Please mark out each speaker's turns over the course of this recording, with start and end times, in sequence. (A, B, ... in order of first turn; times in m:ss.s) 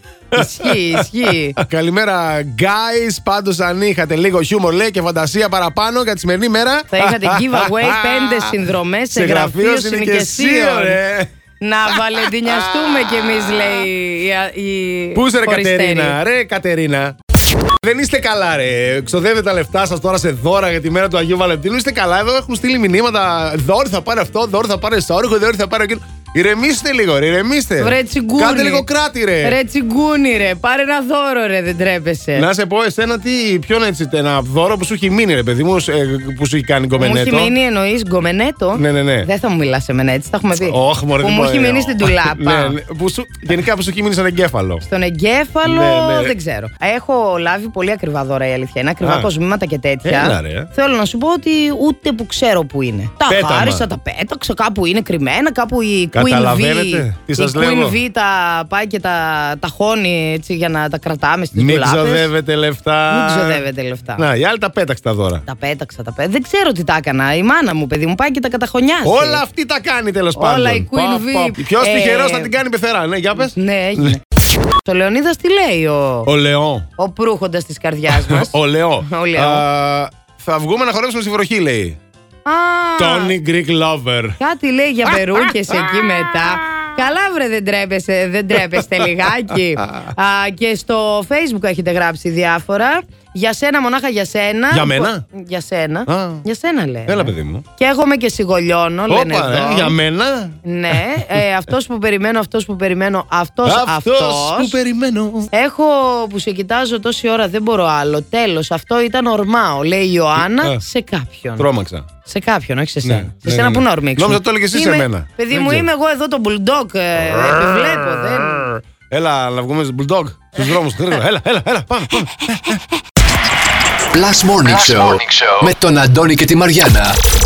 0:00.3-0:01.6 A
0:00.3-0:08.6 B
0:06.9-0:11.0 A
0:09.1-0:11.3 B
0:11.6-0:16.2 A
0:11.9-0:13.7 B
0:15.1-0:17.1 B
0:17.8-0:29.6 B
0:27.8-0:28.9 A
0:29.4-0:32.5 A
0:32.3-0:37.5 B
0:37.0-0:42.8 A
0:38.7-0:39.3 B
0:40.5-0:44.8 B
0:44.8-1:02.3 A
0:45.6-0:46.3 B
0:49.0-0:49.3 B
0:50.0-0:50.7 B
0:53.3-0:53.8 B
0:56.1-0:58.0 B
1:01.5-1:03.6 B
1:03.1-1:04.2 A
1:04.2-1:05.4 B
1:05.4-1:09.4 A
1:09.0-1:14.2 B
1:10.3-1:12.5 A
1:13.4-1:14.2 A
1:14.8-1:16.3 A
1:16.2-1:16.9 B
1:17.0-1:19.6 A
1:18.1-1:22.0 B
1:22.4-1:23.3 A
1:23.0-1:24.4 B
1:24.4-1:39.9 A
1:25.1-1:26.4 B
1:28.7-1:30.1 B
1:34.7-1:35.2 B
1:36.1-1:36.4 B
1:37.0-1:37.6 B
1:39.1-1:41.2 B
1:40.6-1:44.8 A
1:43.6-1:45.5 B
1:45.5-1:51.7 A
1:51.6-1:52.1 B
1:52.2-1:58.8 A
1:53.0-1:55.9 B
1:59.1-2:02.8 B
2:04.1-2:07.2 C